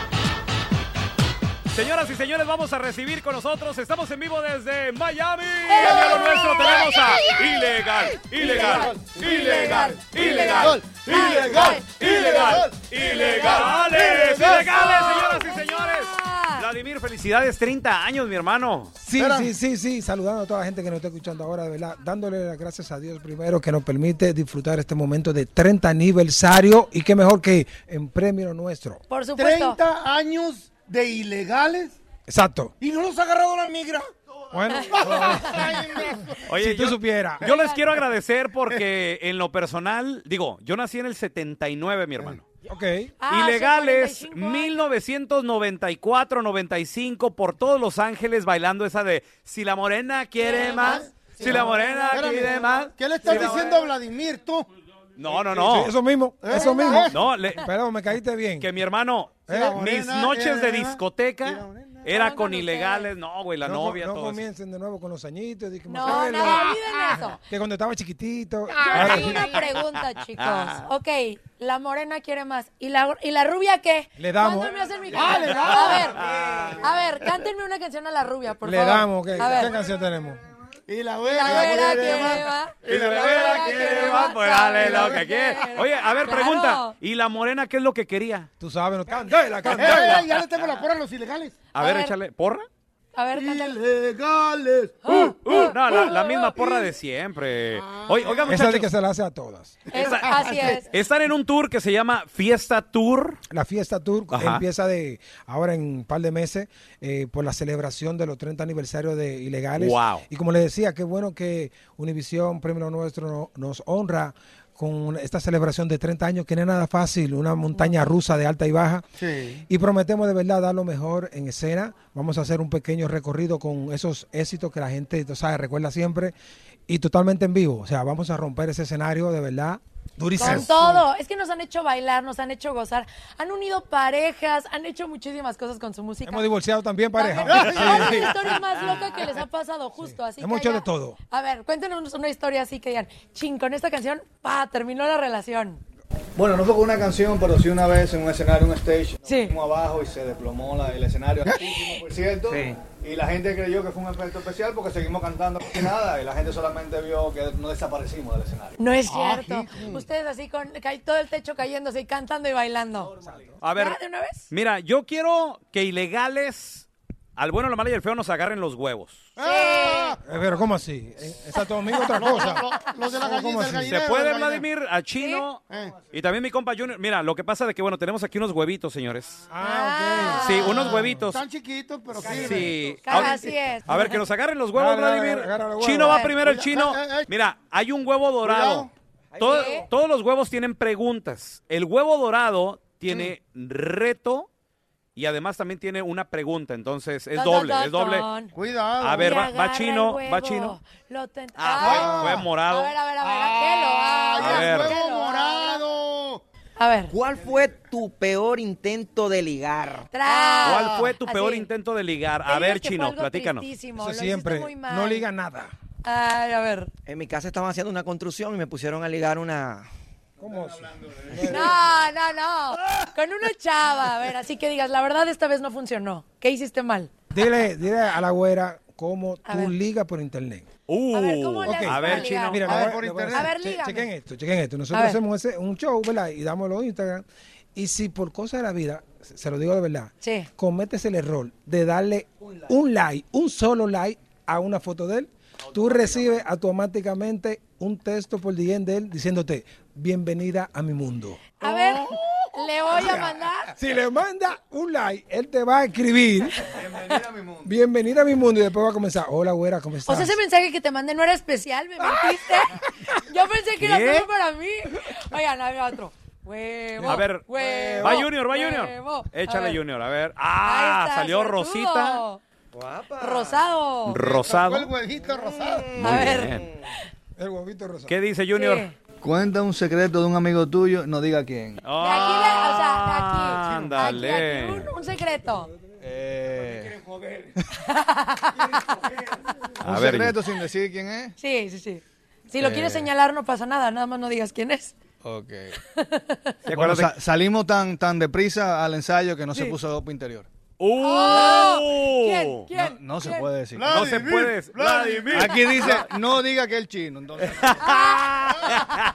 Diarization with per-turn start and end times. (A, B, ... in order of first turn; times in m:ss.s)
0:01.7-0:18.9 A
0:05.7-0:07.4 B
0:08.4-0:12.0 B
0:08.5-0:08.8 C
0:10.2-0:14.6 C
0:13.1-0:13.7 B
0:14.3-0:16.6 B
0:19.0-0:29.0 D
0:19.2-0:19.5 C
0:29.1-0:29.8 B
0:29.4-0:31.9 C
0:32.3-0:32.7 D
0:32.8-0:34.0 C
0:34.5-0:35.8 D
0:34.7-0:35.4 B
0:34.9-0:36.4 C
0:36.5-0:42.4 A
0:36.5-0:37.5 D
0:37.5-0:37.8 B
0:42.7-0:43.2 D
0:43.2-0:44.8 B
0:43.3-0:53.7 A
0:50.4-0:51.0 B
0:50.5-0:54.7 C
0:51.7-0:52.2 B
0:55.2-0:55.9 A
0:55.5-0:58.7 D
0:56.4-0:57.2 C
0:56.5-0:57.1 B
0:57.1-0:57.6 A
0:58.6-1:04.4 A
0:59.5-0:59.8 D
0:59.5-1:02.1 C
1:02.2-1:03.1 B
1:03.6-1:06.8 D
1:05.9-1:07.4 B
1:07.5-1:09.6 D
1:08.9-1:16.2 B
1:10.4-1:10.8 A
1:14.2-1:14.7 D
1:15.2-1:16.1 C
1:16.2-1:16.8 A
1:16.8-1:19.8 B
1:18.6-1:20.4 D
1:20.9-1:25.2 C
1:21.3-1:26.9 B
1:22.8-1:28.5 A
1:28.6-1:30.2 D
1:29.7-1:31.6 C
1:31.8-1:32.7 A
1:31.8-1:32.2 B
1:33.2-1:33.8 B
1:33.3-1:35.3 C
1:35.0-1:36.5 B
1:35.4-1:38.9 A
1:37.9-1:38.5 C
1:38.5-1:39.8 D
1:39.9-1:40.9 B
1:39.9-1:40.3 A
1:40.0-1:40.8 C
1:40.9-1:43.4 A
1:43.5-1:59.0 D
1:44.3-1:44.6 A
1:49.8-1:50.2 A
1:59.2-1:59.6 C
1:59.7-2:06.3 D
2:06.9-2:10.9 D
2:10.4-2:16.5 B
2:16.2-2:18.6 D
2:17.2-2:25.8 B
2:20.0-2:21.2 D
2:26.4-2:38.8 E
2:29.2-2:29.5 B
2:31.7-2:32.0 C
2:38.8-2:43.1 B
2:39.1-2:40.0 C
2:43.2-2:43.6 D
2:43.6-2:44.0 A
2:43.7-2:44.5 B
2:44.5-2:49.3 A
2:49.4-2:50.2 C
2:49.4-2:50.2 B
2:50.2-2:53.9 D
2:51.9-2:52.7 B
2:52.2-2:54.6 C
2:53.9-2:55.6 A
2:55.2-2:55.4 B
2:55.7-2:56.0 C
2:56.1-2:59.4 A
2:59.5-3:01.2 D
2:59.6-3:01.1 B
3:00.3-3:01.4 A
3:00.8-3:02.7 C
3:02.2-3:14.5 A
3:02.2-3:02.7 D
3:03.0-3:04.2 B
3:04.7-3:06.2 D
3:06.0-3:06.3 B
3:06.4-3:07.3 C
3:08.4-3:08.9 C
3:09.4-3:09.9 B
3:15.2-3:18.3 A
3:17.3-3:18.5 B
3:18.5-3:19.4 C
3:19.0-3:20.8 A
3:19.2-3:25.8 B
3:21.6-3:22.9 A
3:21.8-3:22.5 C
3:23.2-3:26.4 C
3:24.4-3:25.0 A
3:26.8-3:27.1 B
3:27.1-3:30.1 F
3:30.1-3:31.7 B
3:30.3-3:31.1 C
3:30.6-3:33.7 A
3:32.5-3:35.3 B
3:34.0-3:35.7 D
3:36.0-3:36.9 B
3:37.0-3:39.9 F
3:40.4-3:41.8 D
3:41.4-3:47.1 B
3:47.3-3:50.7 D
3:49.5-3:49.7 B
3:50.9-3:52.6 A
3:51.1-3:54.1 B
3:51.6-4:11.5 D
3:52.7-3:53.5 C
3:54.9-3:55.2 B
4:00.2-4:00.5 B
4:11.6-4:13.7 B
4:12.9-4:16.8 D
4:16.7-4:17.7 E
4:17.6-4:20.4 D
4:20.0-4:29.8 B
4:23.8-4:24.3 A
4:27.0-4:28.2 D
4:27.1-4:27.5 A
4:28.0-4:32.2 A
4:30.6-4:32.4 B
4:33.2-4:34.2 B
4:34.0-4:34.9 A
4:34.2-4:36.1 C
4:36.0-4:36.6 A
4:36.0-4:36.6 B
4:37.4-4:38.1 D
4:38.1-4:38.9 A
4:38.5-4:38.9 B
4:39.2-4:41.8 E
4:41.8-4:44.9 A
4:42.0-4:45.7 B
4:46.0-4:47.0 E
4:47.8-4:48.7 B
4:49.8-4:51.3 E
4:49.8-4:50.3 A
4:51.4-4:54.9 B
4:52.6-4:52.9 A
4:55.2-4:55.7 E
4:56.0-4:56.4 B
4:56.7-5:00.5 E
4:56.7-4:57.1 A
4:59.5-4:59.8 B
5:00.8-5:02.7 A
5:01.0-5:03.5 B
5:02.7-5:04.2 E
5:03.8-5:05.4 C
5:03.8-5:06.1 A
5:05.3-5:07.8 E
5:07.6-5:08.3 A
5:07.8-5:08.7 B